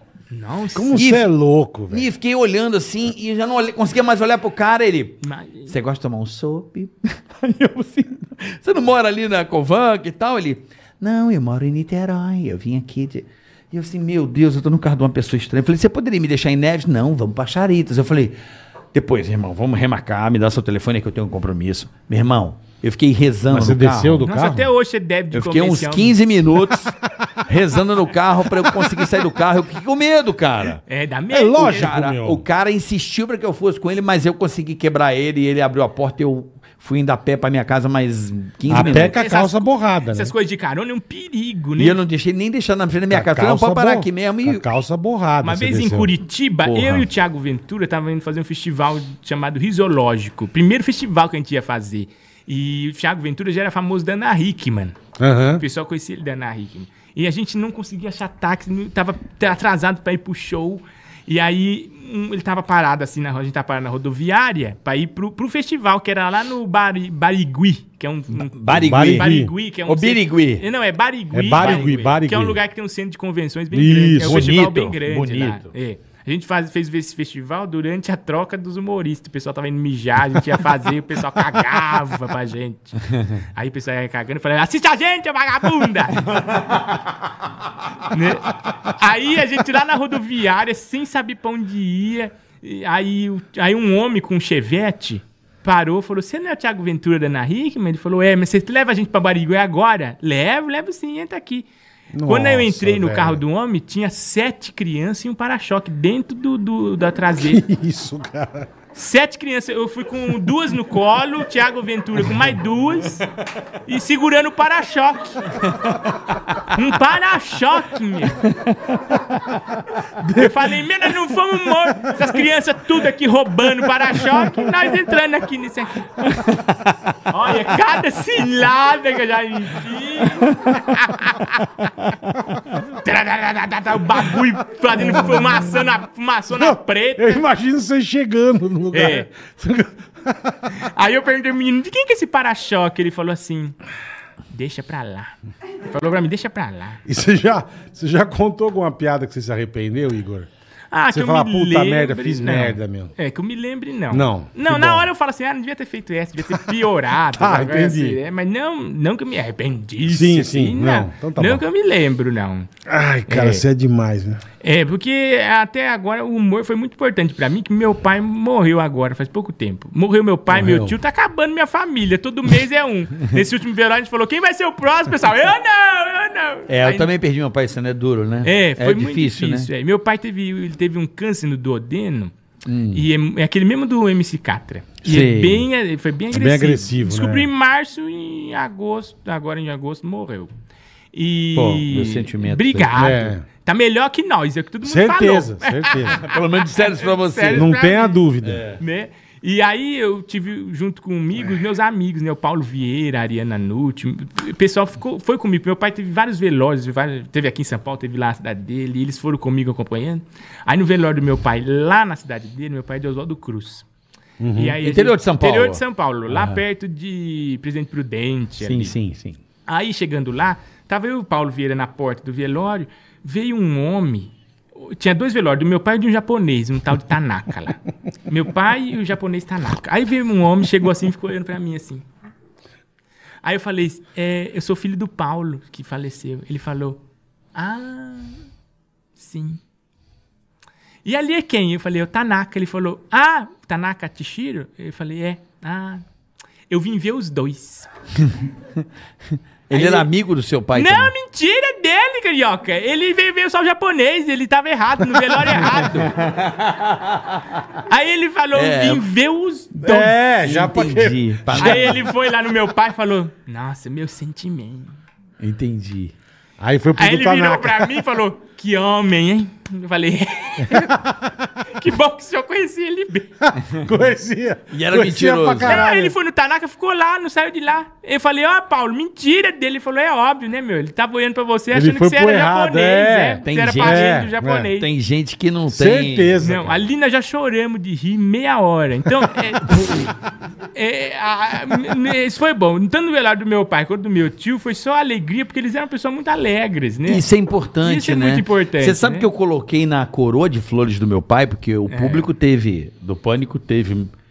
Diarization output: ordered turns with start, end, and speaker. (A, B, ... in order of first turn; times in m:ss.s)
0:00.3-0:01.0 A
0:00.7-0:02.1 B
0:00.9-0:01.3 C
0:01.9-0:18.4 C
0:05.2-0:05.7 A
0:18.9-0:24.3 C
0:23.5-0:24.7 B
0:24.2-0:26.2 A
0:25.3-0:30.8 C
0:30.9-0:31.9 A
0:31.3-0:32.4 B
0:31.6-0:39.2 C
0:38.7-0:40.3 B
0:38.7-0:42.0 A
0:41.8-0:44.7 C
0:43.1-0:46.1 B
0:45.4-0:55.0 A
0:46.6-0:47.1 C
0:55.2-0:55.6 B
0:55.6-1:26.7 A
1:08.4-1:10.6 C
1:08.7-1:09.5 B
1:11.3-1:12.6 B
1:11.6-1:11.9 C
1:13.7-1:14.5 B
1:14.2-1:15.7 C
1:28.1-1:41.7 A
1:42.1-1:43.4 B
1:42.2-1:47.6 A
1:47.4-1:48.7 B
1:48.9-1:53.3 A
1:53.9-1:55.5 A
1:56.7-1:58.5 A
1:58.6-1:59.0 C
2:00.2-2:06.3 A
2:06.3-2:06.8 C
2:07.3-2:11.6 A
2:12.8-2:17.4 A
2:16.5-2:20.7 B
2:18.9-2:19.3 A
2:20.7-2:23.8 A
2:24.5-2:27.0 A
2:27.1-2:30.5 B
2:30.9-2:42.7 A
2:31.1-2:33.1 B
2:34.1-2:35.1 B
2:37.4-2:38.2 B
2:40.1-2:41.6 B
2:42.9-2:44.4 B
2:43.3-2:43.6 A
2:44.6-2:57.1 A
2:50.5-2:51.0 B
2:56.7-2:59.7 C
2:58.4-3:02.3 A
3:02.7-3:03.1 C
3:02.9-3:10.5 A
3:05.0-3:05.6 C
3:06.3-3:07.5 B
3:11.1-3:18.2 A
3:11.6-3:13.0 C
3:12.9-3:13.4 B
3:14.8-3:16.2 B
3:16.2-3:17.7 C
3:17.5-3:18.6 B
3:18.4-3:18.8 C
3:18.8-3:33.9 A
3:34.4-3:34.8 B
3:34.5-3:39.0 A
3:34.8-3:36.6 C
3:38.6-3:39.4 C
3:39.7-3:52.1 A
3:53.4-3:57.0 A
3:57.6-3:58.4 A
3:59.2-3:59.6 A
4:01.0-4:06.0 A
4:06.7-4:07.9 A
4:09.7-4:11.1 C
4:09.7-4:10.1 A
4:10.8-4:16.2 A
4:15.7-4:17.6 C
4:17.9-4:20.2 A
4:18.5-4:19.0 C
4:19.8-4:22.0 B
4:20.4-4:22.0 C
4:21.5-4:25.0 A
4:25.4-4:26.1 C
4:26.6-4:28.0 B
4:27.0-4:31.0 A
4:30.7-4:31.3 B
4:31.6-4:33.3 A
4:33.4-4:36.2 B
4:34.7-4:35.9 C
4:35.6-4:44.9 A
4:41.7-4:44.7 B
4:43.4-4:44.2 C
4:44.8-4:46.4 C
4:45.7-4:46.8 B
4:46.4-4:50.1 A
4:50.7-4:57.2 A
4:57.1-5:04.1 C
4:57.8-4:59.3 A
5:01.9-5:02.3 A